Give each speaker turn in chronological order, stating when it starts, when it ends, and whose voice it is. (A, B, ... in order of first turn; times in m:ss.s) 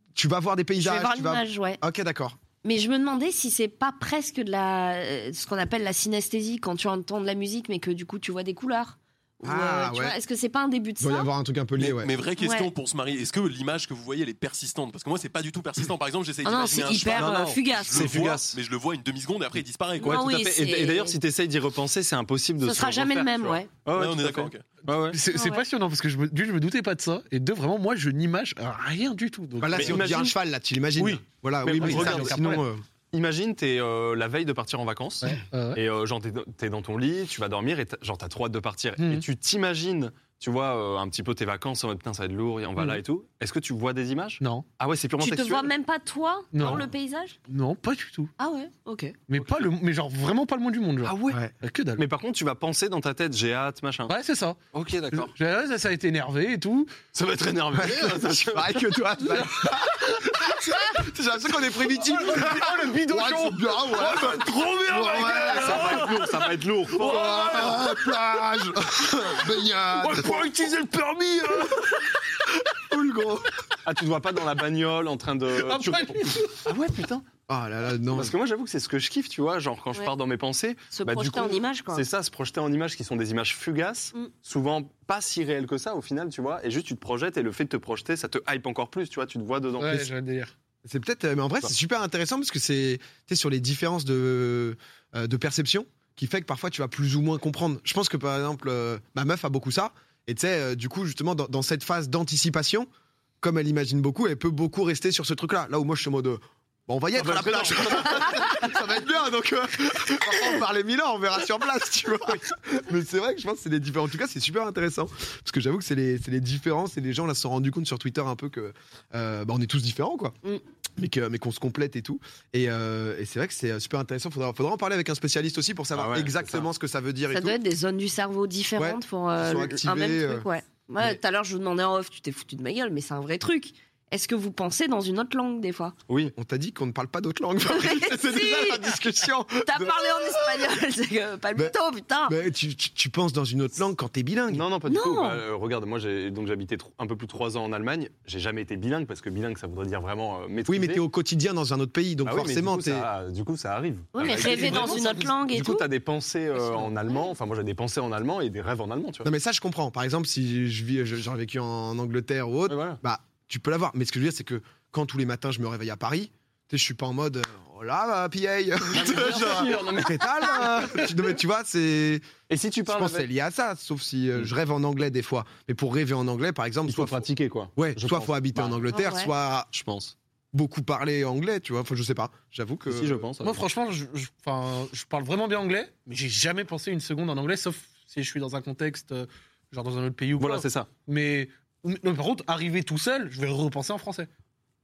0:00.1-0:02.4 A
0:00.8-0:01.8 B
0:02.6-0:11.3 B
0:09.4-0:10.2 A
0:11.0-0:12.2 A
0:11.8-0:20.2 C
0:12.4-0:12.7 B
0:16.4-0:18.2 B
0:17.0-0:18.6 D
0:20.0-0:21.2 B
0:20.0-0:25.2 D
0:22.6-0:23.8 B
0:23.9-0:24.7 C
0:25.1-0:30.2 E
0:25.3-0:25.6 B
0:29.6-0:32.8 A
0:29.7-0:30.3 D
0:31.0-0:31.2 E
0:31.6-0:45.7 D
0:31.8-0:32.6 E
0:35.2-0:35.8 E
0:39.0-0:39.2 E
0:44.4-0:44.6 E
0:45.2-0:47.4 B
0:46.5-0:46.8 E
0:46.6-0:46.9 D
0:47.5-0:48.3 E
0:48.4-0:49.2 B
0:49.3-0:52.0 E
0:49.4-0:49.7 D
0:51.0-0:51.4 D
0:52.0-0:54.1 D
0:54.1-0:54.6 E
0:54.7-0:55.3 D
0:55.1-0:56.9 E
0:57.1-0:59.4 D
0:57.7-1:06.1 A
0:59.3-0:59.7 E
1:02.0-1:08.5 E
1:05.2-1:07.8 D
1:07.0-1:10.5 A
1:09.4-1:12.2 E
1:12.7-1:13.5 A
1:13.8-1:17.2 D
1:15.5-1:16.6 E
1:17.5-1:18.4 A
1:18.1-1:30.1 D
1:20.9-1:22.1 B
1:29.8-1:30.5 E
1:30.8-1:42.9 A
1:43.4-2:00.4 A
1:47.1-1:48.7 D
2:01.0-2:07.6 A
2:05.9-2:06.7 D
2:07.3-2:16.0 B
2:08.8-2:10.5 A
2:16.1-2:16.3 D
2:16.2-2:20.6 A
2:17.7-2:19.0 B
2:19.6-2:22.4 B
2:21.6-2:24.6 A
2:24.5-2:31.0 D
2:24.9-2:25.4 B
2:30.6-2:33.1 A
2:32.2-2:39.3 D
2:34.1-2:35.9 B
2:34.3-2:35.0 A
2:36.6-2:36.9 B
2:39.2-2:52.2 A
2:42.7-2:43.0 D
2:48.9-2:51.4 D
2:52.5-2:53.3 D
2:52.9-2:59.7 A
2:56.9-2:59.0 D
2:58.9-2:59.3 B
2:59.7-3:00.1 D
3:00.5-3:03.3 A
3:02.9-3:03.6 D
3:03.4-3:14.3 E
3:10.4-3:10.9 D